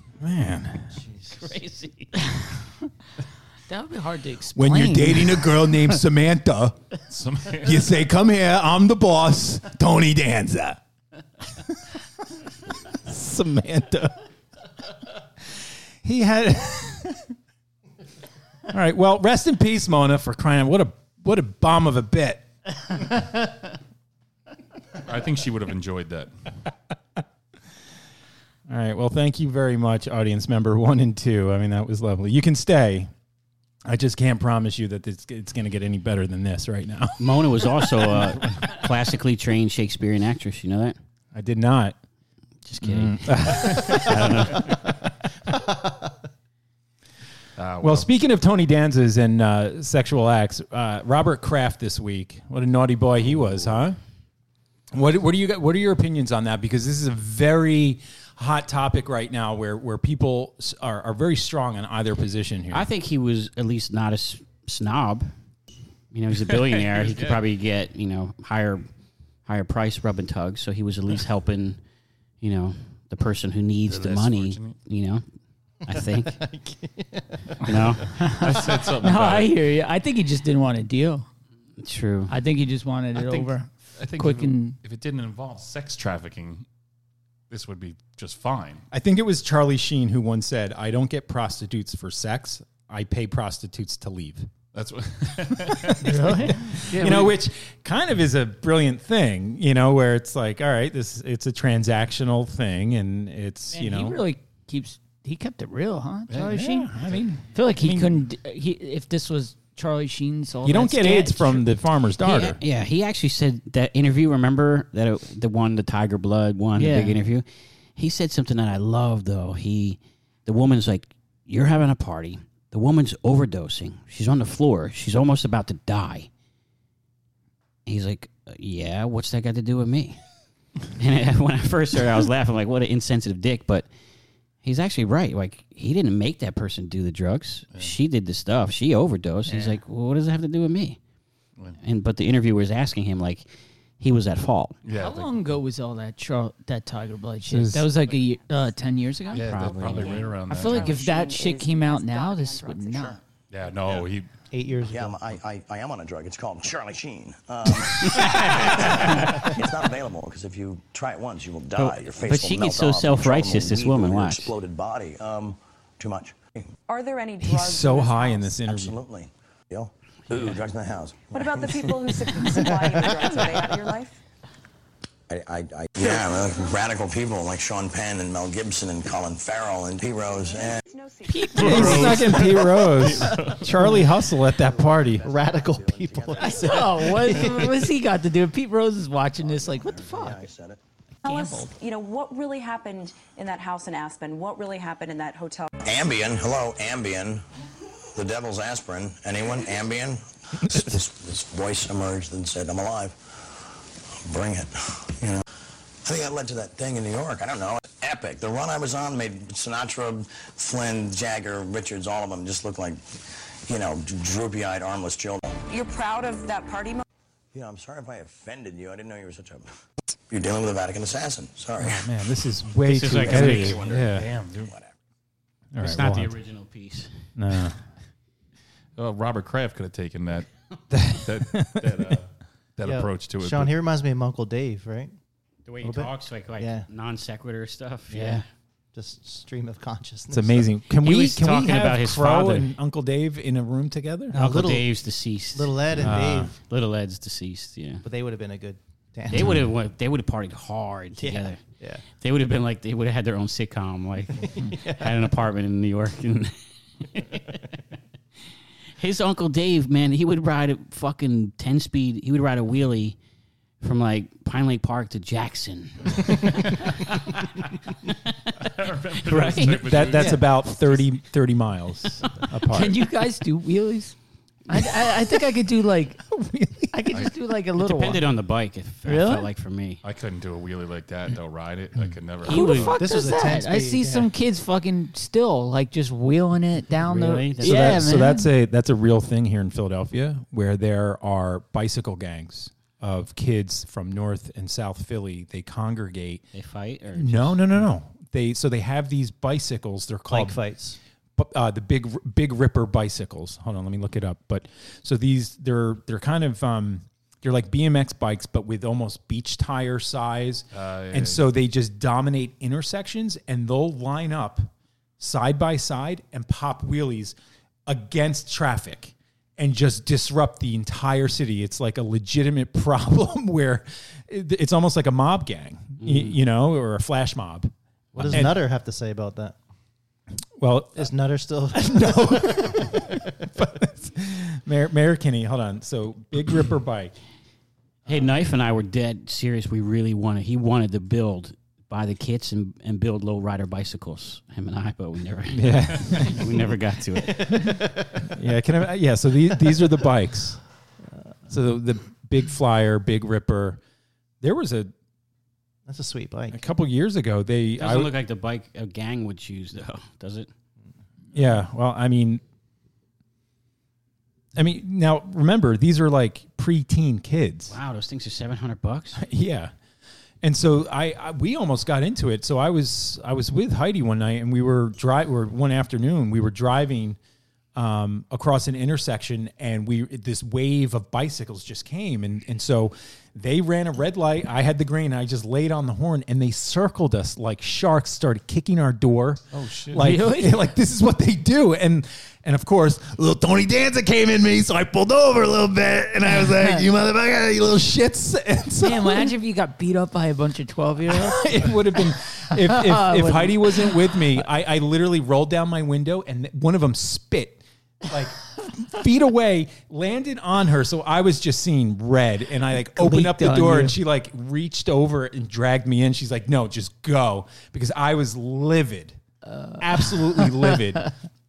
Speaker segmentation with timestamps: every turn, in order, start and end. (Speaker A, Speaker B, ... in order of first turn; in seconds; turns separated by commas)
Speaker A: 0.2-0.9, Speaker B: 1.3-2.1, Speaker C: 3.7-5.8, Speaker A: 4.5-6.8, Speaker D: 7.1-8.0, Speaker A: 7.6-10.8, Speaker A: 12.9-14.1, Speaker A: 16.0-17.2, Speaker A: 18.7-22.5, Speaker D: 25.0-26.3, Speaker A: 28.7-33.1, Speaker A: 33.8-37.1, Speaker B: 37.2-41.0, Speaker A: 38.1-38.3, Speaker A: 41.3-42.0, Speaker B: 42.6-44.7, Speaker A: 42.8-44.5, Speaker E: 45.7-45.9, Speaker D: 47.6-48.1, Speaker A: 47.8-54.0, Speaker D: 53.4-53.8, Speaker A: 54.9-62.9, Speaker B: 62.7-65.3, Speaker B: 66.1-68.9, Speaker D: 66.4-67.4, Speaker B: 69.5-71.8, Speaker B: 72.4-75.2, Speaker D: 73.9-74.8, Speaker B: 75.8-76.4, Speaker E: 76.2-77.5, Speaker B: 77.6-78.2, Speaker D: 77.8-79.5, Speaker C: 78.2-81.2, Speaker B: 81.8-82.3, Speaker C: 82.3-84.8, Speaker D: 83.1-86.6, Speaker D: 87.5-88.8, Speaker A: 88.9-94.5, Speaker D: 94.7-97.3, Speaker A: 95.8-104.2, Speaker C: 96.0-97.3, Speaker C: 103.7-106.9, Speaker A: 106.3-108.2, Speaker C: 107.5-111.7, Speaker A: 110.6-112.6, Speaker B: 112.2-117.4, Speaker C: 116.7-117.2, Speaker B: 118.0-126.3, Speaker B: 127.8-130.2, Speaker B: 130.9-133.9, Speaker B: 134.6-141.0, Speaker C: 139.5-139.8, Speaker B: 141.8-143.4, Speaker B: 144.0-144.8, Speaker D: 144.8-145.3, Speaker C: 144.9-153.2, Speaker A: 147.4-147.9, Speaker D: 149.3-151.0, Speaker B: 149.3-150.3, Speaker F: 149.8-153.2, Speaker D: 153.5-154.3, Speaker E: 154.5-155.2, Speaker G: 154.9-166.6, Speaker B: 158.1-159.3, Speaker B: 161.8-164.5, Speaker F: 166.9-168.6, Speaker A: 167.4-169.0, Speaker G: 168.6-172.2, Speaker F: 171.3-174.2, Speaker G: 175.3-180.8, Speaker F: 180.3-182.1, Speaker C: 181.2-182.1, Speaker D: 181.5-184.0, Speaker A: 181.6-185.3, Speaker G: 184.6-187.7, Speaker E: 185.1-187.7, Speaker C: 186.4-190.5, Speaker G: 189.3-190.8, Speaker F: 191.2-195.7, Speaker C: 191.2-191.7, Speaker G: 195.8-197.4, Speaker G: 198.1-203.2, Speaker A: 200.6-200.9, Speaker G: 204.2-205.4, Speaker G: 206.0-215.6, Speaker F: 215.7-217.0, Speaker G: 217.5-219.7, Speaker G: 220.3-222.1, Speaker A: 221.8-224.3, Speaker B: 222.9-223.8, Speaker G: 223.2-224.9, Speaker D: 223.9-224.7, Speaker A: 225.7-226.3, Speaker B: 225.8-227.1, Speaker A: 227.3-227.8, Speaker D: 229.0-230.5, Speaker A: 230.9-232.2, Speaker D: 231.2-233.8, Speaker E: 232.8-235.1, Speaker B: 235.7-238.4, Speaker E: 235.8-236.9, Speaker E: 238.9-240.7, Speaker A: 240.3-244.3, Speaker B: 241.0-242.7, Speaker E: 244.3-244.9, Speaker B: 244.3-248.0, Speaker E: 245.5-246.5, Speaker A: 246.0-246.5, Speaker E: 248.0-249.7, Speaker B: 249.3-256.5, Speaker E: 251.2-252.0, Speaker E: 254.4-255.2, Speaker B: 257.1-257.6, Speaker B: 259.0-263.2, Speaker B: 263.8-266.9, Speaker D: 268.6-271.0, Speaker A: 269.3-273.0, Speaker C: 272.7-274.1, Speaker C: 274.7-276.2, Speaker A: 274.7-275.2, Speaker A: 276.3-277.1, Speaker C: 276.9-278.2, Speaker B: 277.8-280.0, Speaker C: 279.0-279.5, Speaker D: 280.0-283.0, Speaker C: 282.4-288.5, Speaker E: 282.5-284.3, Speaker B: 287.0-288.0, Speaker A: 287.6-296.4, Speaker B: 296.5-297.8, Speaker A: 297.1-300.6, Speaker E: 300.3-301.0, Speaker A: 301.4-328.6, Speaker D: 310.7-311.4, Speaker B: 326.0-326.4, Speaker E: 328.1-329.5, Speaker A: 330.6-331.1, Speaker E: 330.9-333.2, Speaker A: 331.7-337.1, Speaker B: 338.1-347.6, Speaker A: 345.5-346.5, Speaker E: 347.4-348.3, Speaker A: 348.3-350.6, Speaker A: 351.5-353.8, Speaker A: 354.4-354.9, Speaker E: 355.9-356.6, Speaker A: 356.5-358.1, Speaker B: 357.8-360.5, Speaker A: 361.3-362.4, Speaker A: 364.6-367.8, Speaker B: 367.7-369.2, Speaker A: 369.1-369.7, Speaker A: 370.4-377.2, Speaker A: 377.7-399.3, Speaker D: 389.5-390.1, Speaker C: 389.9-390.6, Speaker C: 398.8-401.7, Speaker A: 401.1-419.2, Speaker C: 402.5-404.4, Speaker C: 412.9-413.9, Speaker C: 419.4-421.1, Speaker A: 419.8-421.1